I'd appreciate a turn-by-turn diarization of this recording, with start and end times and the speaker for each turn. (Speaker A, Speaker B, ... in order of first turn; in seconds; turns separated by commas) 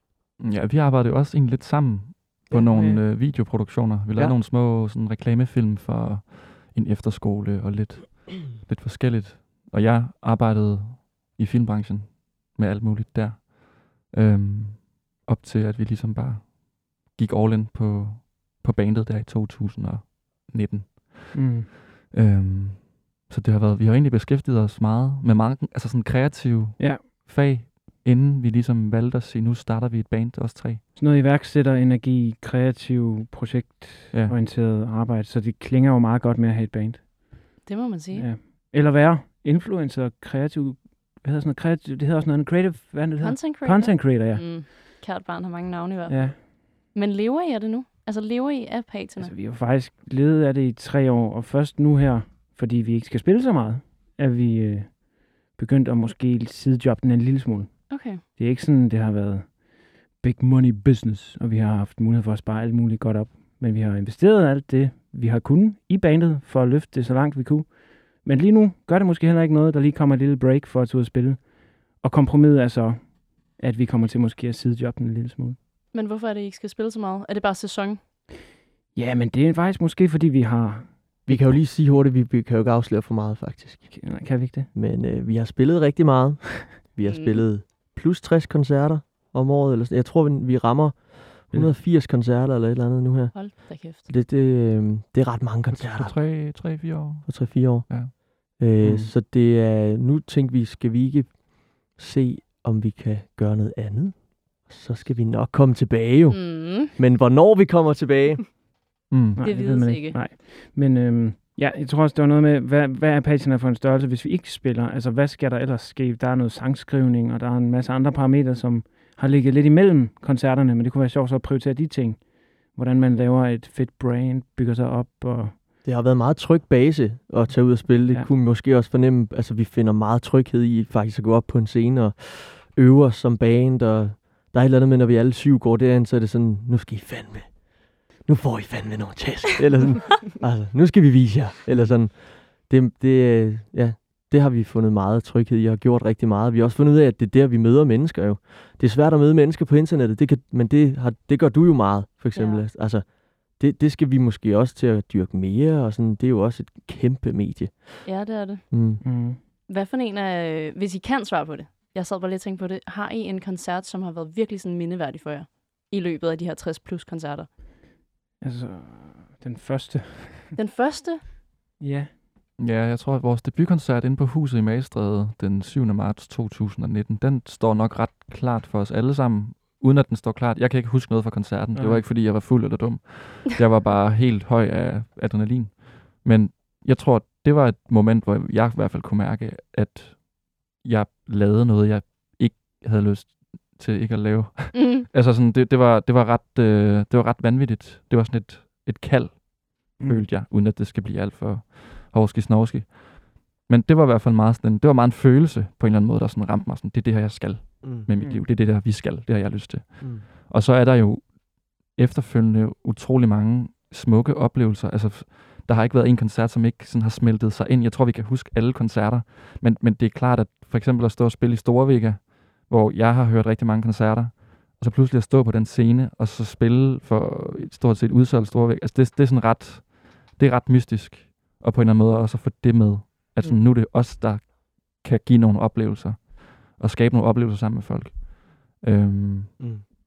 Speaker A: 0.4-30.8, Speaker B: 2.5-3.0, Speaker C: 4.1-4.4, Speaker B: 21.3-21.7, Speaker B: 26.8-27.0, Speaker B: 30.9-37.5, Speaker D: 37.6-38.3, Speaker B: 38.1-44.7, Speaker D: 43.2-49.4, Speaker B: 46.1-46.4, Speaker B: 49.2-75.6, Speaker D: 57.9-58.2, Speaker D: 75.9-78.0, Speaker B: 79.0-81.6, Speaker C: 81.3-96.7, Speaker B: 83.9-84.7, Speaker D: 87.0-87.5, Speaker D: 93.3-94.0, Speaker A: 95.8-98.1, Speaker C: 97.2-108.5, Speaker B: 98.8-99.1, Speaker D: 106.3-106.9, Speaker A: 109.1-109.4, Speaker B: 109.3-125.6, Speaker D: 109.4-110.2, Speaker C: 125.8-159.0, Speaker D: 152.3-152.6, Speaker D: 158.0-167.5, Speaker B: 159.0-159.4, Speaker B: 168.4-170.5, Speaker D: 170.5-171.2, Speaker B: 171.8-172.1, Speaker A: 172.6-239.7, Speaker B: 181.8-182.0, Speaker D: 194.7-195.0, Speaker B: 200.0-200.2, Speaker C: 207.8-208.1, Speaker B: 208.2-208.4, Speaker C: 210.0-210.2